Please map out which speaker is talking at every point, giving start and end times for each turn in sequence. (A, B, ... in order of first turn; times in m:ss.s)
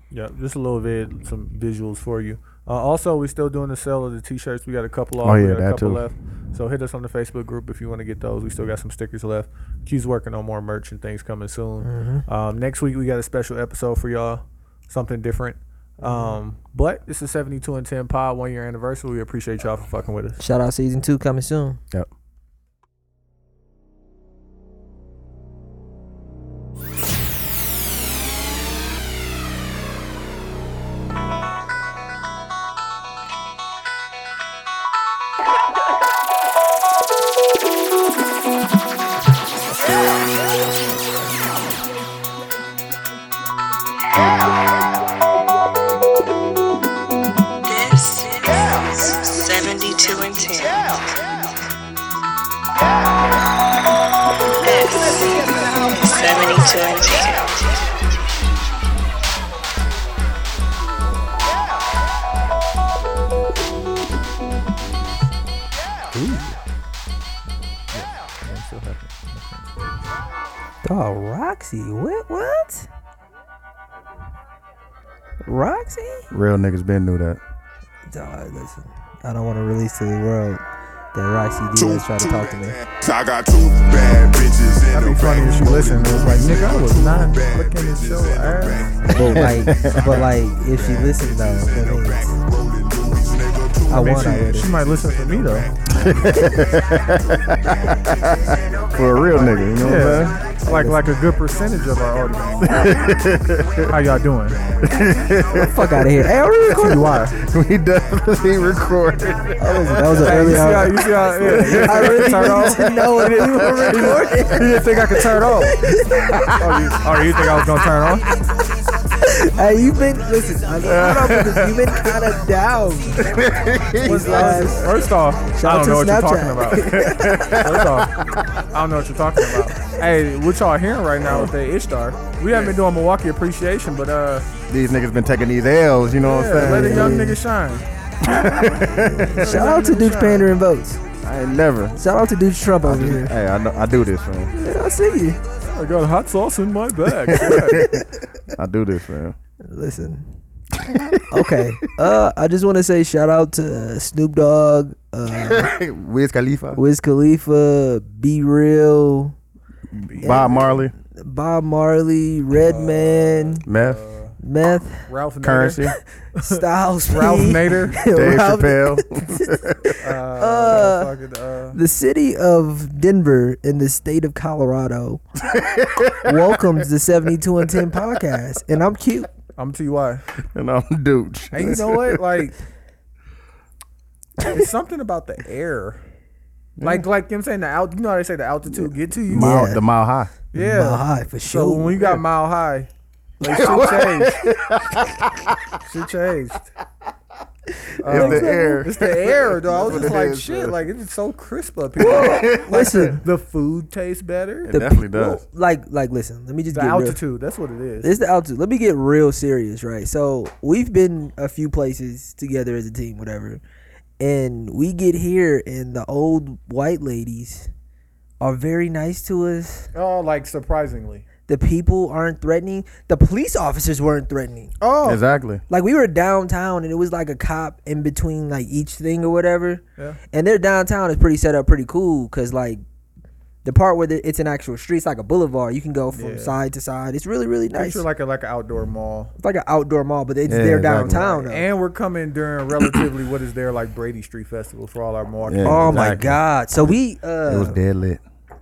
0:00.1-0:20.4 A
0:05.2-0:06.0 B
0:11.8-0:12.2 C
0:16.0-0:16.4 C
0:20.4-0:21.8 C
0:47.6-0:51.1 D
0:54.6-0:57.9 D
1:06.2-1:06.5 C
1:07.9-1:09.8 A
1:10.8-1:12.9 C
1:15.4-1:16.3 C
1:16.3-1:17.4 B
1:18.1-1:20.6 C
1:21.1-1:22.8 C
1:22.9-1:25.8 E
1:24.8-1:29.2 A
1:29.1-1:32.4 C
1:29.2-1:30.0 B
1:32.9-1:33.8 E
1:33.9-1:34.7 C
1:33.9-1:35.8 A
1:35.9-1:40.4 B
1:39.3-1:43.0 A
1:40.7-1:41.0 C
1:42.6-1:43.9 B
1:43.9-1:44.6 A
1:44.8-1:46.2 B
1:45.6-1:47.2 C
1:46.7-1:47.4 A
1:47.3-1:54.5 B
1:49.6-1:55.0 C
1:50.2-1:55.8 A
1:55.7-1:56.6 C
1:56.4-1:57.1 B
1:56.6-1:58.3 A
1:59.3-2:03.2 C
2:00.8-2:01.9 B
2:03.2-2:04.7 B
2:04.0-2:04.8 C
2:04.0-2:07.0 A
2:05.5-2:07.4 C
2:06.8-2:08.3 B
2:07.5-2:08.1 A
2:08.7-2:14.5 A
2:11.2-2:11.5 B
2:14.7-2:17.2 B
2:16.2-2:17.9 A
2:16.6-2:17.4 C
2:18.2-2:19.5 B
2:18.6-2:21.0 C
2:19.4-2:20.6 A
2:21.2-2:22.0 B
2:22.0-2:23.3 C
2:22.8-2:24.6 B
2:24.6-2:25.4 C
2:25.7-2:27.9 A
2:27.2-2:29.4 B
2:29.6-2:30.3 C
2:30.8-2:31.6 B
2:31.3-2:35.7 C
2:35.3-2:36.8 B
2:36.8-2:39.4 C
2:39.9-2:40.9 B
2:40.0-2:40.8 A
2:40.2-2:43.6 C
2:42.5-2:44.4 A
2:43.7-2:44.0 B
2:44.4-2:45.1 C
2:45.1-2:48.1 A
2:45.4-2:46.0 B
2:46.4-2:49.5 C
2:48.1-2:50.0 B
2:50.0-2:51.8 A
2:50.4-2:51.1 C
2:51.7-2:55.2 C
2:55.4-2:56.9 B
2:56.2-2:59.3 C
2:57.6-2:58.4 B
2:59.6-3:00.2 A
3:00.5-3:02.2 B
3:01.5-3:02.6 A
3:04.4-3:06.0 A
3:06.8-3:07.1 B
3:06.8-3:09.6 A
3:08.7-3:10.3 B
3:09.3-3:09.8 C
3:10.5-3:14.5 A
3:10.6-3:12.2 C
3:13.4-3:15.8 B
3:15.8-3:16.7 A
3:18.0-3:24.8 A
3:18.0-3:20.8 B
3:18.1-3:18.8 C
3:22.0-3:23.1 B
3:22.5-3:23.2 C
3:24.6-3:25.4 B
3:24.7-3:27.2 C
3:26.7-3:28.1 A
3:28.0-3:33.6 C
3:34.2-3:37.7 C
3:38.4-3:39.9 C
3:39.9-3:41.3 A
3:41.5-3:44.7 C
3:44.8-3:45.2 A
3:45.0-3:45.6 B
3:45.7-3:52.8 C
3:53.6-3:58.0 C
3:56.1-3:56.6 A
3:57.7-3:59.4 A
3:59.4-4:01.6 C
4:00.5-4:01.3 B
4:01.1-4:06.3 A
4:05.4-4:06.4 B
4:05.6-4:07.8 C
4:07.4-4:08.2 B